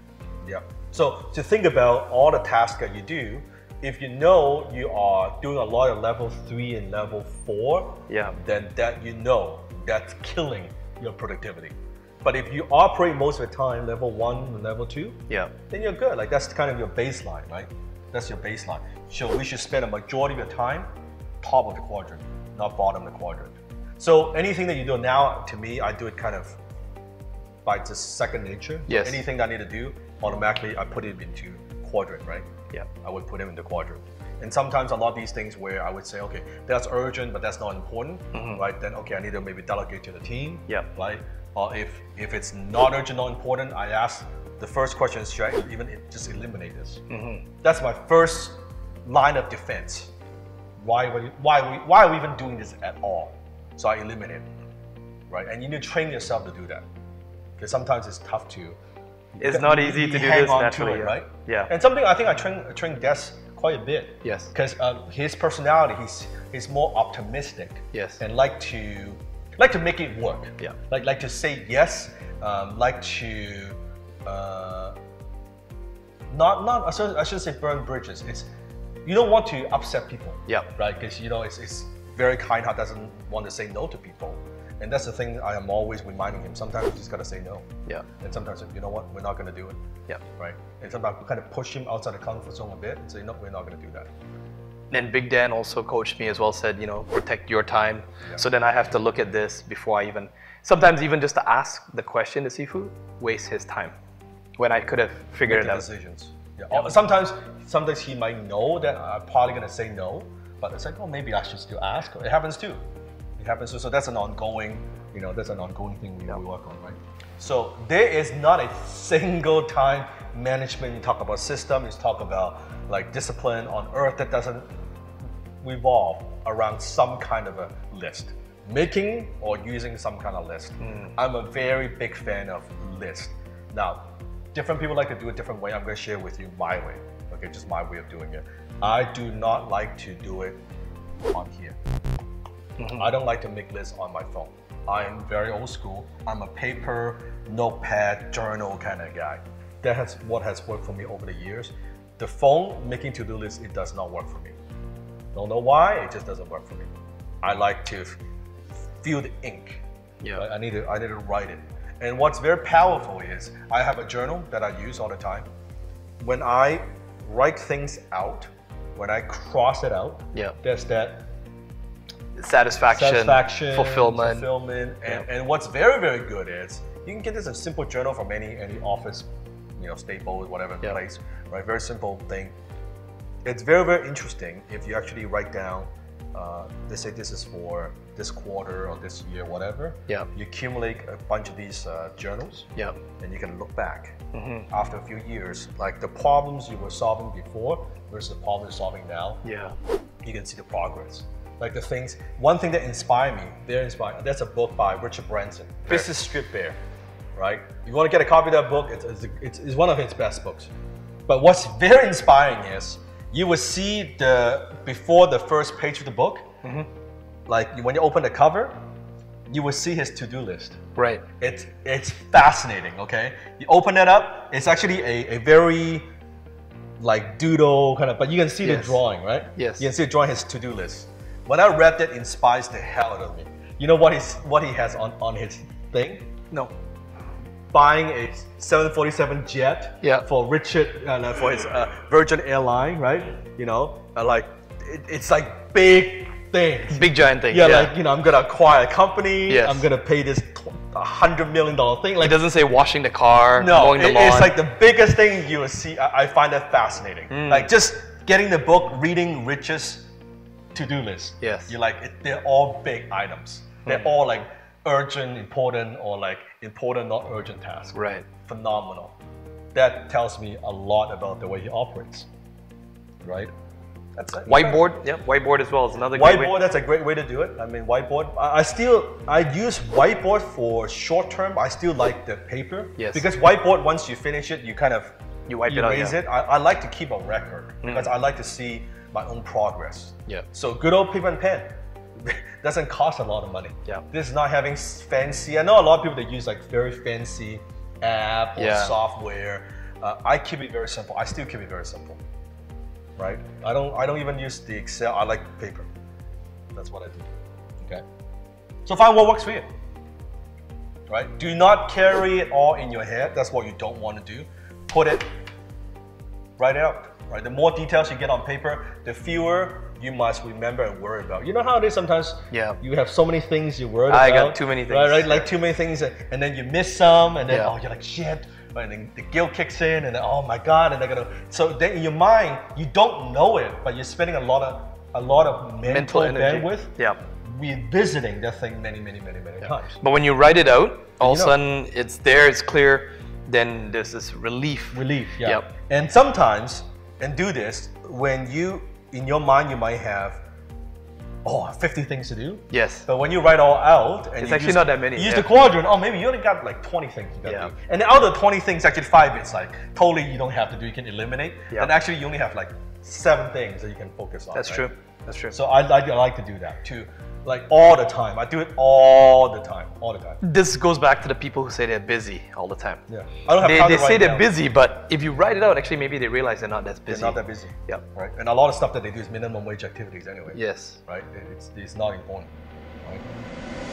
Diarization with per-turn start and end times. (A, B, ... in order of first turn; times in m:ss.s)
0:00.4-0:20.9 A
0:08.1-0:08.4 B
0:21.4-0:26.6 A
0:27.6-0:32.5 A
0:28.9-0:29.2 B
0:33.0-0:47.0 A
0:38.3-0:38.6 B
0:47.1-0:47.4 B
0:47.6-0:50.1 A
0:50.8-0:54.4 A
0:55.3-0:56.8 A
0:57.6-0:58.8 A
0:59.3-1:14.9 A
0:59.4-1:01.7 B
1:04.2-1:04.5 B
1:07.9-1:08.2 B
1:16.3-1:18.5 A
1:19.0-1:27.7 A
1:28.2-1:29.8 A
1:30.4-1:34.1 A
1:34.9-1:43.9 B
1:44.6-1:45.8 B
1:45.4-1:52.8 A
1:53.4-2:04.7 A
2:05.6-2:20.6 A
2:21.2-2:21.8 A
2:22.8-2:23.1 B
2:22.9-2:34.6 A
2:35.3-2:36.9 A
2:37.4-2:38.2 A
2:39.0-2:39.8 A
2:40.3-2:45.5 A
2:46.2-2:51.3 A
2:52.4-2:54.5 B
2:52.9-3:02.5 A
3:03.4-3:12.7 A
3:13.2-3:14.2 A
3:14.3-3:14.6 B
3:14.7-3:19.4 A
3:19.4-3:19.7 B
3:20.2-3:26.8 A
3:27.4-3:30.7 A
3:31.3-3:36.5 A
3:37.5-3:38.8 A
3:39.5-3:40.8 A
3:41.0-3:41.2 B
3:41.4-3:46.1 A
3:47.0-3:56.3 A
3:48.6-3:49.0 B
3:49.5-3:49.9 B
3:57.7-4:12.4 A
4:06.9-4:07.9 B
4:09.5-4:09.9 B
4:12.2-4:14.6 B
4:13.6-4:20.1 A
4:17.3-4:17.7 B
4:20.7-4:29.2 A
4:21.4-4:21.7 B
4:27.9-4:28.2 B
4:29.7-4:32.3 A
4:33.2-4:33.5 A
4:34.2-4:34.9 A
4:34.4-4:36.6 B
4:36.1-4:45.1 A
4:43.0-4:43.3 B
4:45.5-4:46.2 B
4:45.7-5:02.2 A
4:47.8-4:48.1 B
4:58.6-4:59.0 B
5:03.2-5:05.9 A
5:06.7-5:07.3 A
5:08.8-5:09.7 A
5:11.1-5:15.3 A
5:16.6-5:40.0 A
5:22.5-5:22.8 B
5:24.1-5:25.5 B
5:27.5-5:27.7 B
5:35.8-5:37.2 B
5:39.6-5:45.7 B
5:41.2-5:41.6 A
5:44.9-5:50.4 A
5:51.4-6:04.9 A
5:52.7-5:53.1 B
5:54.4-5:55.5 B
5:57.4-5:57.7 B
6:04.5-6:05.6 B
6:05.5-6:10.4 A
6:10.4-6:13.0 B
6:13.1-6:14.5 A
6:13.6-6:18.0 B
6:17.1-6:22.5 A
6:20.5-6:21.0 B
6:23.0-6:23.3 A